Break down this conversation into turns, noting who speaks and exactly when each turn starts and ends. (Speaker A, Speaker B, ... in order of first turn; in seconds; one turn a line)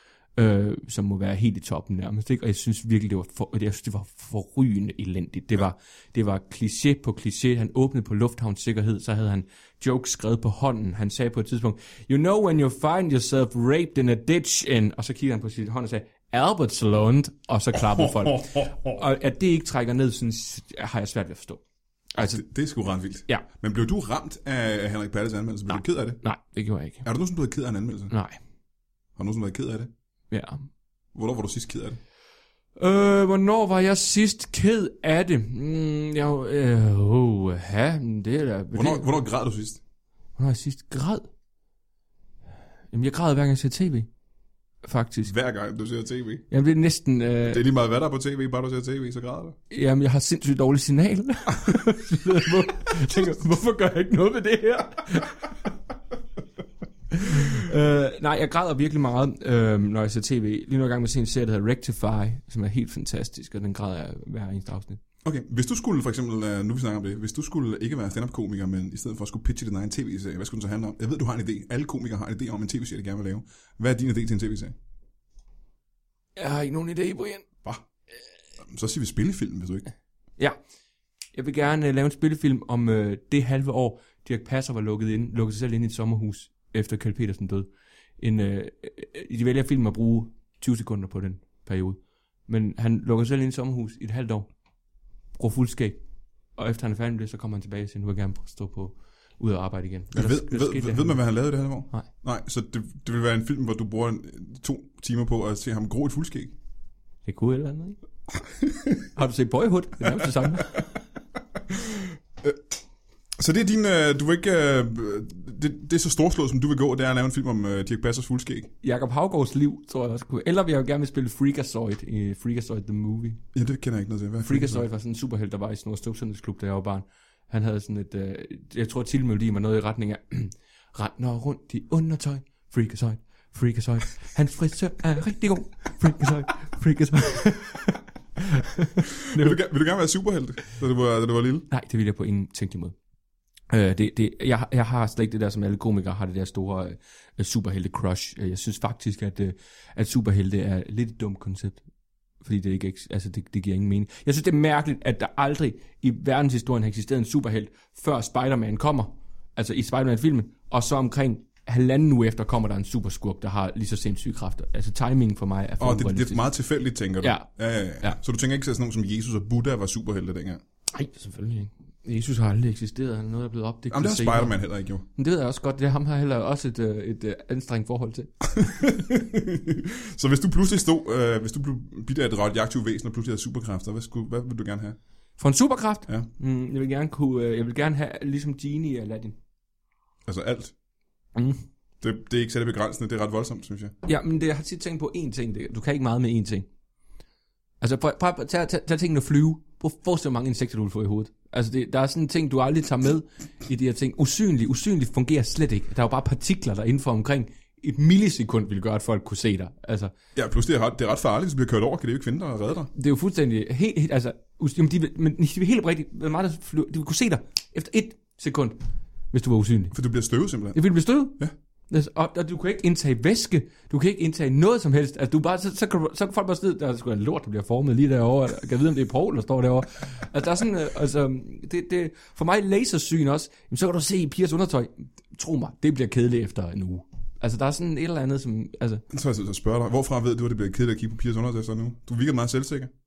Speaker A: 0.4-21.6
Speaker B: 17.7-19.0
Speaker A: 22.1-22.4
Speaker B: 22.2-26.2
Speaker A: 25.7-27.1
Speaker B: 27.0-28.1
Speaker A: 28.1-28.4
Speaker B: 29.2-29.9
Speaker A: 30.3-30.7
Speaker B: 31.1-32.0
Speaker A: 32.8-39.1
Speaker B: 38.7-39.8
Speaker A: 40.4-41.3
Speaker A: 42.9-44.1
Speaker A: 44.8-45.3
Speaker B: 45.3-46.5
Speaker A: 46.5-47.6
Speaker B: 47.4-49.6
Speaker A: 49.7-55.4
Speaker A: 57.1-65.0
Speaker B: 65.2-74.8
Speaker A: 76.4-77.5
Speaker B: 78.6-79.9
Speaker A: 81.3-94.5
Speaker A: 95.3-96.0
Speaker A: 96.5-101.2
Speaker B: 100.1-106.5
Speaker A: 107.2-108.0
Speaker B: 108.6-109.1
Speaker A: 109.2-110.9
Speaker B: 111.7-112.6
Speaker B: 113.4-118.7
Speaker A: 118.8-123.4
Speaker B: 123.5-124.8
Speaker A: 124.5-139.6
Speaker B: 139.1-141.7
Speaker A: 141.7-142.9
Speaker A: 143.7-151.8
Speaker A: 152.4-166.4
Speaker B: 165.8-170.6
Speaker A: 167.2-167.5
Speaker A: 170.9-178.4
Speaker B: 173.9-175.1
Speaker B: 178.5-185.0
Speaker A: 185.4-189.4
Speaker B: 190.3-190.7
Speaker A: 191.3-191.6
Speaker B: 192.0-194.0
Speaker A: 194.0-196.7
Speaker A: 197.8-210.1
Speaker B: 210.3-212.9
Speaker A: 212.9-218.8
Speaker A: 219.3-219.9
Speaker B: 219.9-220.8
Speaker A: 220.7-239.0
Speaker B: 239.1-242.9